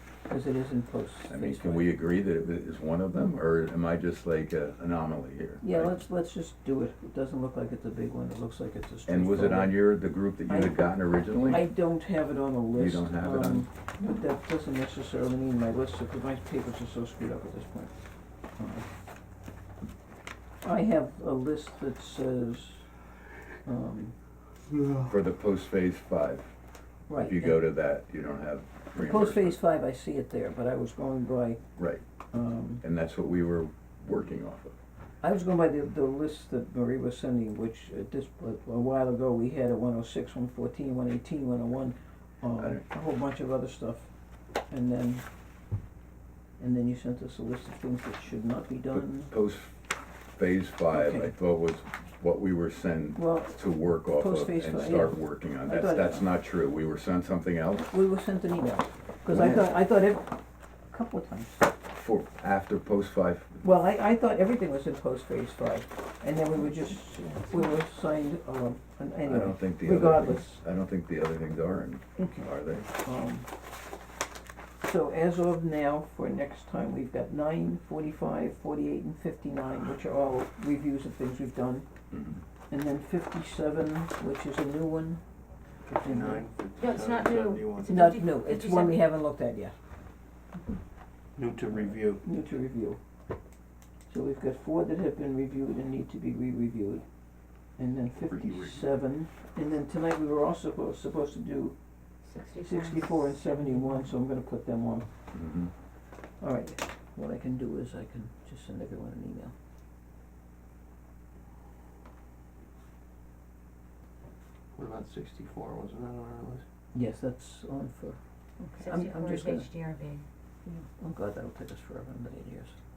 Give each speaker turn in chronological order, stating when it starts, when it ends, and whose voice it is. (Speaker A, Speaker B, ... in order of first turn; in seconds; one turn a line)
Speaker A: 0.3-1.9
Speaker B: 1.3-6.0
Speaker A: 5.6-9.8
Speaker B: 9.1-11.7
Speaker A: 10.4-10.9
Speaker A: 11.4-17.9
Speaker B: 12.7-13.7
Speaker A: 18.6-18.9
Speaker A: 20.6-22.9
Speaker A: 23.6-24.1
Speaker B: 25.1-26.5
Speaker A: 27.1-27.6
Speaker B: 27.1-29.6
Speaker A: 28.9-31.6
Speaker B: 31.8-32.0
Speaker A: 32.3-32.8
Speaker B: 32.8-34.7
Speaker A: 35.2-44.1
Speaker B: 42.6-42.8
Speaker A: 44.7-45.2
Speaker A: 46.6-49.3
Speaker B: 48.9-57.9
Speaker A: 50.9-51.3
Speaker A: 53.1-56.3
Speaker A: 57.9-60.4
Speaker B: 59.3-59.7
Speaker A: 60.9-61.7
Speaker B: 61.9-63.6
Speaker A: 63.6-70.6
Speaker B: 69.2-72.9
Speaker A: 72.2-73.5
Speaker A: 74.8-81.9
Speaker B: 82.1-82.4
Speaker A: 82.7-85.2
Speaker C: 85.8-87.9
Speaker A: 86.0-86.5
Speaker D: 86.8-89.0
Speaker A: 87.8-89.8
Speaker C: 91.3-92.2
Speaker A: 91.7-93.0
Speaker A: 94.1-97.0
Speaker A: 97.8-101.8
Speaker B: 98.3-98.8
Speaker D: 102.2-104.0
Speaker A: 102.6-105.1
Speaker B: 105.3-105.7
Speaker A: 106.4-109.5
Speaker C: 114.7-116.6
Speaker A: 116.9-119.7
Speaker D: 118.8-120.2
Speaker A: 120.6-122.7